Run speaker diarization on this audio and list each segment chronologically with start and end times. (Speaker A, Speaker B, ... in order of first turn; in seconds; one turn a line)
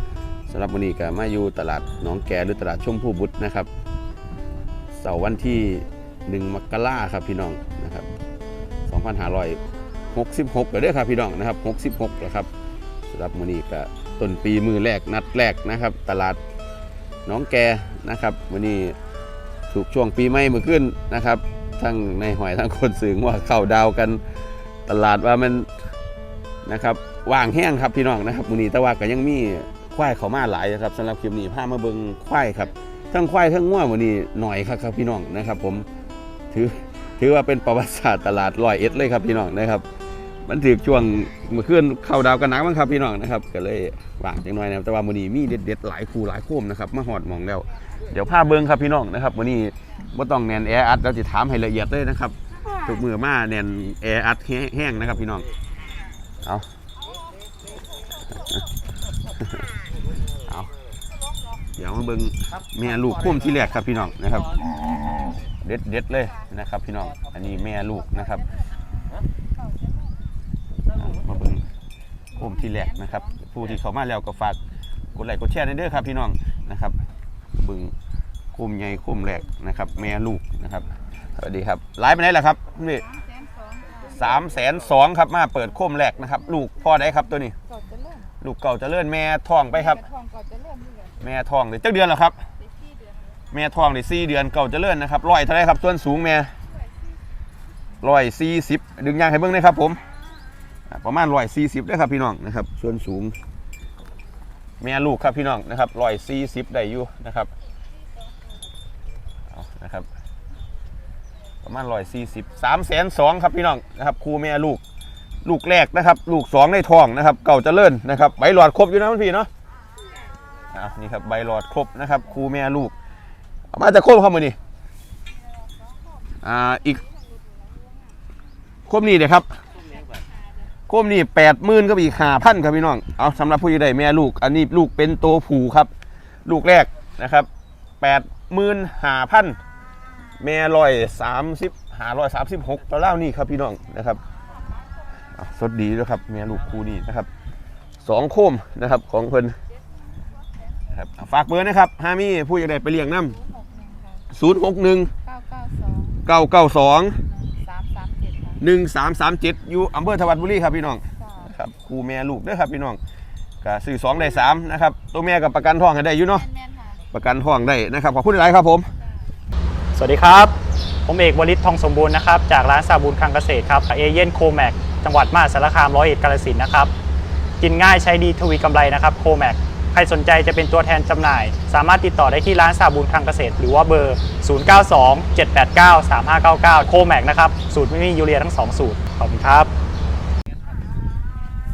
Speaker A: 0.5-3.7
Speaker A: 4.9-8.1
Speaker A: 8.9-9.6
Speaker A: 10.1-12.5
Speaker A: 13.1-16.4
Speaker A: 17.3-19.0
Speaker A: 19.7-24.2
Speaker A: 24.9-25.7
Speaker A: 26.6-35.9
Speaker A: 36.5-39.8
Speaker A: 40.5-55.5
Speaker A: 60.5-60.7
Speaker A: 61.8-64.6
Speaker A: 65.6-68.5
Speaker A: 70.9-71.6
Speaker A: 72.3-74.6
Speaker A: 75.1-77.0
Speaker A: 77.5-77.9
Speaker A: 78.5-83.1
Speaker B: 83.2-83.9
Speaker A: 84.0-87.5
Speaker B: 87.7-88.3
Speaker A: 88.4-90.0
Speaker B: 89.9-91.2
Speaker A: 91.2-92.3
Speaker A: 93.5-96.5
Speaker A: 98.0-100.0
Speaker A: 100.9-103.3
Speaker A: 104.8-107.5
Speaker A: 109.5-110.1
Speaker A: 111.6-114.8
Speaker A: 115.4-119.5
Speaker A: 120.7-122.9
Speaker A: 123.7-124.6
Speaker A: 126.4-127.0
Speaker A: 128.9-129.6
Speaker A: 130.9-135.9
Speaker A: 136.4-137.5
Speaker A: 138.0-139.6
Speaker A: 140.4-144.2
Speaker A: 145.3-147.3
Speaker A: 148.0-149.6
Speaker A: 150.9-153.4
Speaker B: 153.5-154.2
Speaker A: 154.3-155.1
Speaker B: 155.3-156.2
Speaker A: 156.2-157.2
Speaker B: 157.6-158.6
Speaker A: 158.6-163.0
Speaker A: 163.6-166.5
Speaker B: 166.5-166.9
Speaker A: 167.1-168.9
Speaker C: 169.9-170.5
Speaker C: 171.1-176.9
Speaker C: 177.6-189.7